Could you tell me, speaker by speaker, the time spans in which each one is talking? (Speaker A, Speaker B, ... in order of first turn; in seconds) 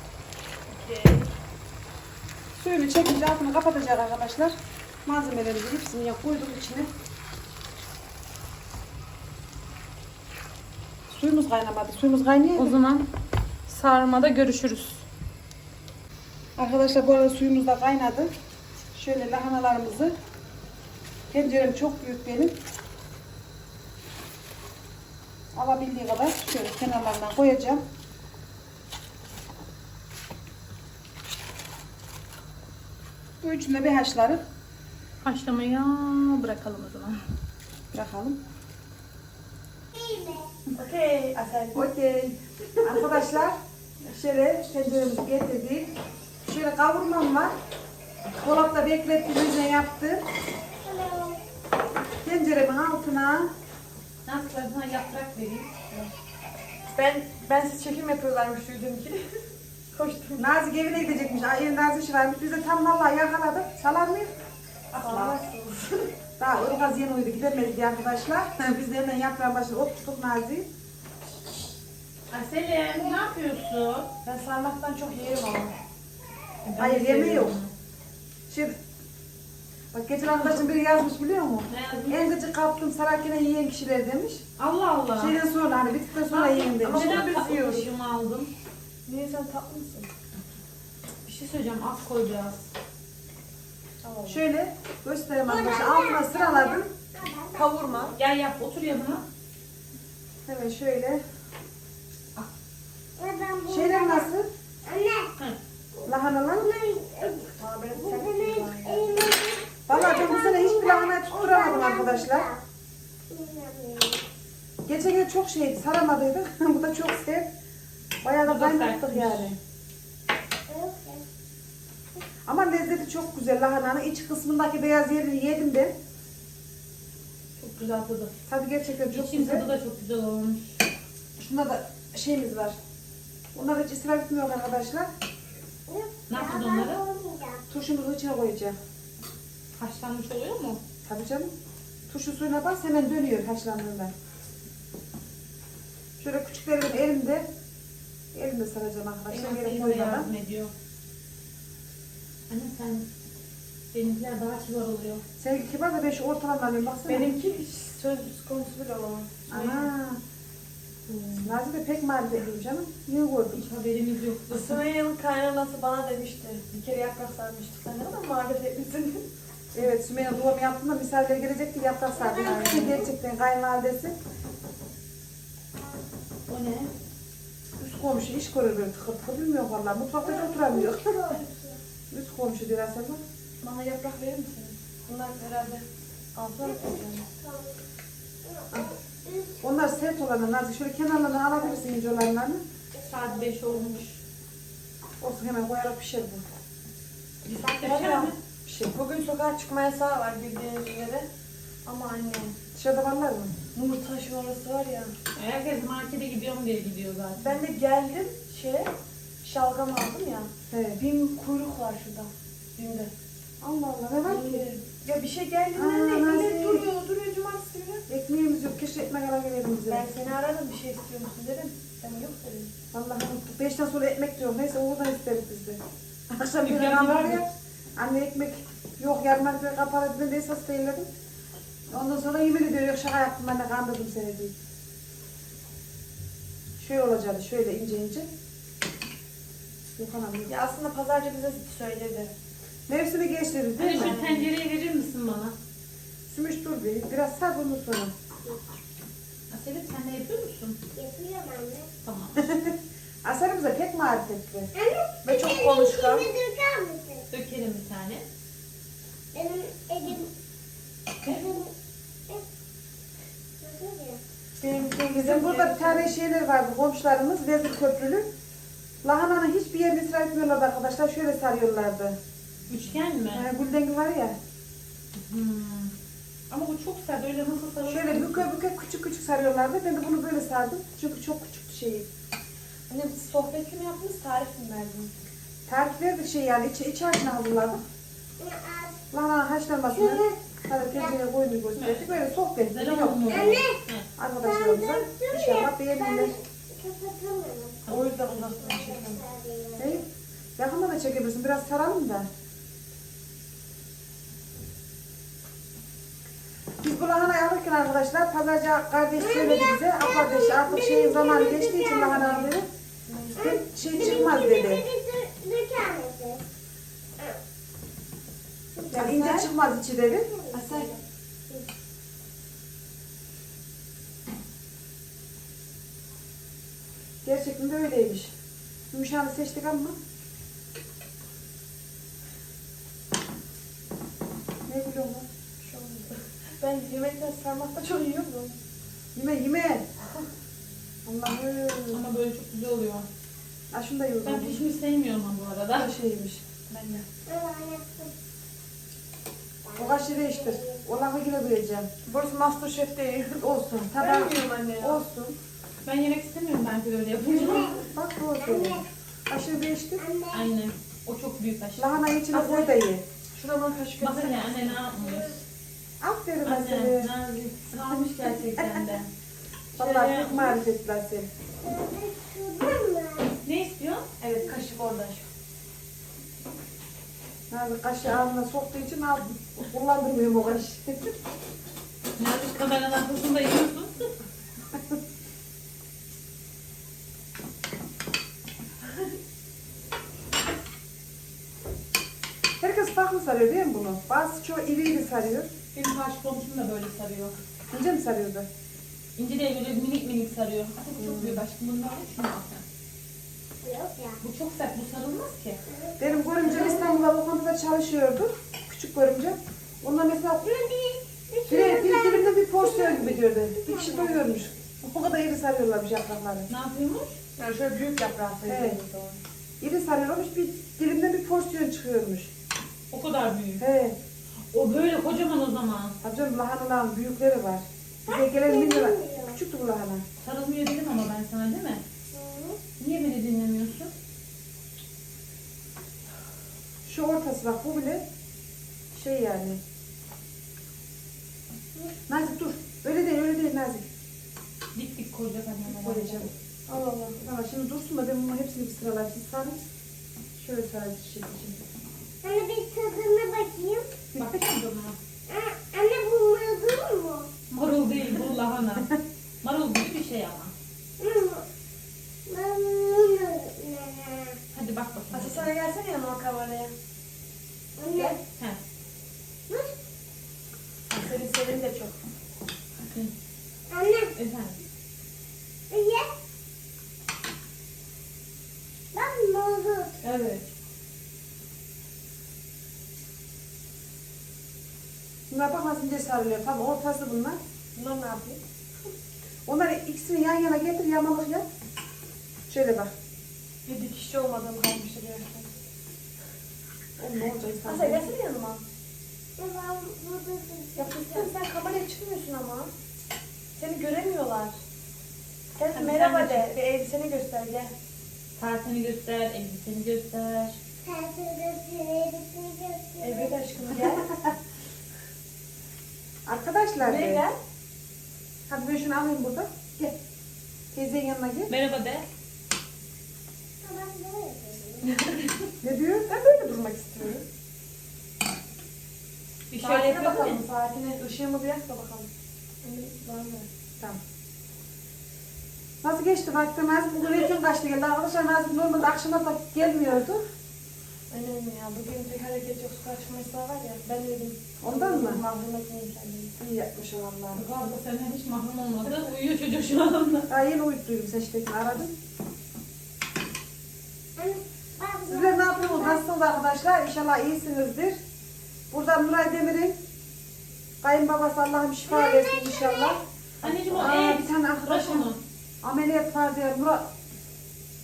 Speaker A: 0.7-1.3, 40.8-41.9, 56.9-59.2, 59.9-60.5, 64.9-66.1, 74.2-75.7, 86.7-87.9, 89.1-90.1, 94.0-94.4, 97.5-98.2, 107.6-109.3, 157.1-159.9, 164.5-169.2, 183.6-187.3, 197.5-198.3, 198.9-201.3, 201.9-202.6, 203.8-205.1, 207.3-208.9, 209.4-213.1, 214.2-218.0, 219.9-222.7, 240.5-242.3, 243.9-244.4, 255.2-256.3, 264.6-266.1, 282.9-285.1, 297.9-299.2, 312.2-312.5, 313.1-313.4, 335.6-338.6, 346.7-347.1, 352.1-355.0, 362.3-362.8, 363.3-364.8, 374.2-375.3, 417.4-419.2, 446.7-447.2, 465.1-466.7, 467.9-468.2, 470.9-471.9, 487.8-488.4, 493.7-495.5, 497.6-498.6, 500.8-502.7, 503.6-504.6, 505.6-507.7, 513.0-514.3, 516.8-517.4, 524.9-525.5, 526.1-527.2, 529.6-532.1, 532.6-533.5, 541.1-546.3
Speaker B: 2.5-6.9, 11.1-12.8, 16.6-18.3, 18.9-20.1, 21.3-22.6, 25.6-27.8, 33.4-34.4, 37.9-38.4, 41.7-45.9, 46.4-47.5, 48.4-50.2, 52.2-53.5, 60.4-64.3, 66.4-70.7, 76.8-77.6, 78.5-78.7, 79.9-84.4, 85.2-87.2, 94.3-96.9, 100.5-101.2, 103.7-104.5, 106.0-106.7, 109.9-112.5, 114.8-117.5, 118.2-119.6, 122.5-126.0, 128.5-129.7, 131.4-132.8, 133.6-135.1, 137.7-138.8, 141.1-141.5, 142.1-144.1, 146.2-147.5, 148.3-150.3, 155.4-157.3, 159.5-160.2, 161.4-163.6, 169.7-174.2, 177.8-181.4, 182.1-183.2, 189.6-192.6, 195.2-196.4, 198.7-198.9, 202.8-203.6, 210.7-211.0, 213.6-214.6, 215.8-216.9, 218.1-220.1, 222.9-225.8, 226.3-231.1, 231.9-234.5, 236.8-238.3, 239.9-240.5, 242.9-244.3, 246.3-248.1, 252.4-254.7, 264.7-268.3, 269.0-272.2, 273.3-274.4, 277.9-282.1, 285.7-287.8, 289.1-293.6, 294.2-296.3, 299.8-300.1, 300.6-302.3, 306.8-312.7, 313.4-314.9, 318.9-320.9, 327.2-328.3, 328.9-330.0, 334.7-335.2, 339.1-339.9, 341.1-342.0, 343.7-344.6, 345.7-346.5, 349.8-351.9, 353.6-355.4, 357.3-360.0, 361.8-363.0, 366.0-367.1, 367.9-368.9, 369.8-371.3, 377.5-381.1, 392.6-395.5, 397.7-398.5, 401.0-401.4, 406.0-410.5, 411.5-416.5, 418.4-418.8, 419.6-422.3, 423.6-424.0, 426.0-430.0, 436.9-438.0, 438.9-439.6, 442.1-443.9, 445.7-446.3, 447.2-449.7, 450.4-451.6, 454.1-454.4, 485.3-487.4, 489.5-491.5, 492.5-492.9, 497.0-498.0, 516.3-517.2, 518.5-520.0, 520.7-521.5, 525.6-526.2, 535.8-540.2, 544.6-545.2, 546.4-547.4, 550.3-551.9, 555.1-558.0, 558.7-559.8, 560.8-563.0, 563.7-565.1, 565.6-566.9
Speaker C: 12.6-13.1, 13.7-15.0, 35.2-37.2, 54.3-56.1, 64.9-65.4, 72.3-74.1, 76.6-77.7, 81.7-82.2, 84.6-85.4, 86.3-88.5, 91.2-92.7, 98.1-99.2, 118.5-119.5, 127.6-128.3, 129.1-130.8, 136.3-137.0, 139.8-140.8, 149.3-150.7, 152.5-153.1, 153.9-155.2, 161.1-161.5, 163.5-164.8, 176.5-176.9, 193.0-194.2, 197.4-198.3, 205.3-207.6, 226.6-227.4, 243.8-245.6, 249.5-250.8, 252.0-252.5, 257.3-258.3, 272.7-273.4, 275.2-275.9, 276.5-278.5, 291.8-292.1, 292.7-294.1, 297.9-298.5, 341.9-343.1, 344.2-345.9, 355.9-357.8, 360.3-362.0, 364.0-365.4, 366.4-369.1, 369.8-370.6, 373.4-374.1, 382.2-384.1, 395.7-397.4, 399.2-402.6, 404.2-405.6, 416.5-417.2, 422.9-423.6, 424.5-425.9, 430.2-431.8, 432.8-433.9, 444.7-446.3, 454.2-455.0, 457.5-458.9, 459.4-460.5, 464.5-465.5, 468.3-468.6, 472.8-473.1, 474.1-474.6, 480.0-480.5, 505.7-506.5, 508.4-510.6, 521.5-522.1, 529.5-530.4, 547.3-550.3, 563.4-565.2
Speaker D: 39.9-40.5, 50.9-51.4, 95.5-97.7, 103.2-104.3, 104.8-105.3, 106.5-112.6, 113.3-114.2, 120.7-121.2, 135.9-137.6, 172.2-173.1, 180.4-181.8, 186.6-187.8, 188.5-189.6, 250.9-251.9, 254.7-257.3, 259.3-260.3, 261.2-261.7, 263.6-264.2, 288.4-289.0, 289.9-290.4, 293.3-293.8, 294.4-298.0, 298.5-300.0, 309.2-312.3, 313.4-316.4, 318.8-319.5, 320.3-321.7, 347.3-348.1, 349.7-350.8, 357.3-357.9, 358.4-358.9, 360.0-360.4, 371.6-373.4, 403.6-404.2, 405.7-407.0, 410.4-414.2, 428.1-429.4, 432.1-432.6, 452.2-453.9, 455.3-457.3, 461.0-461.4, 462.3-464.4, 467.8-468.2, 469.5-469.8, 473.7-474.1, 475.7-476.1, 478.9-480.0, 499.4-501.4, 510.8-513.4, 523.6-524.9, 554.2-556.0, 561.9-563.0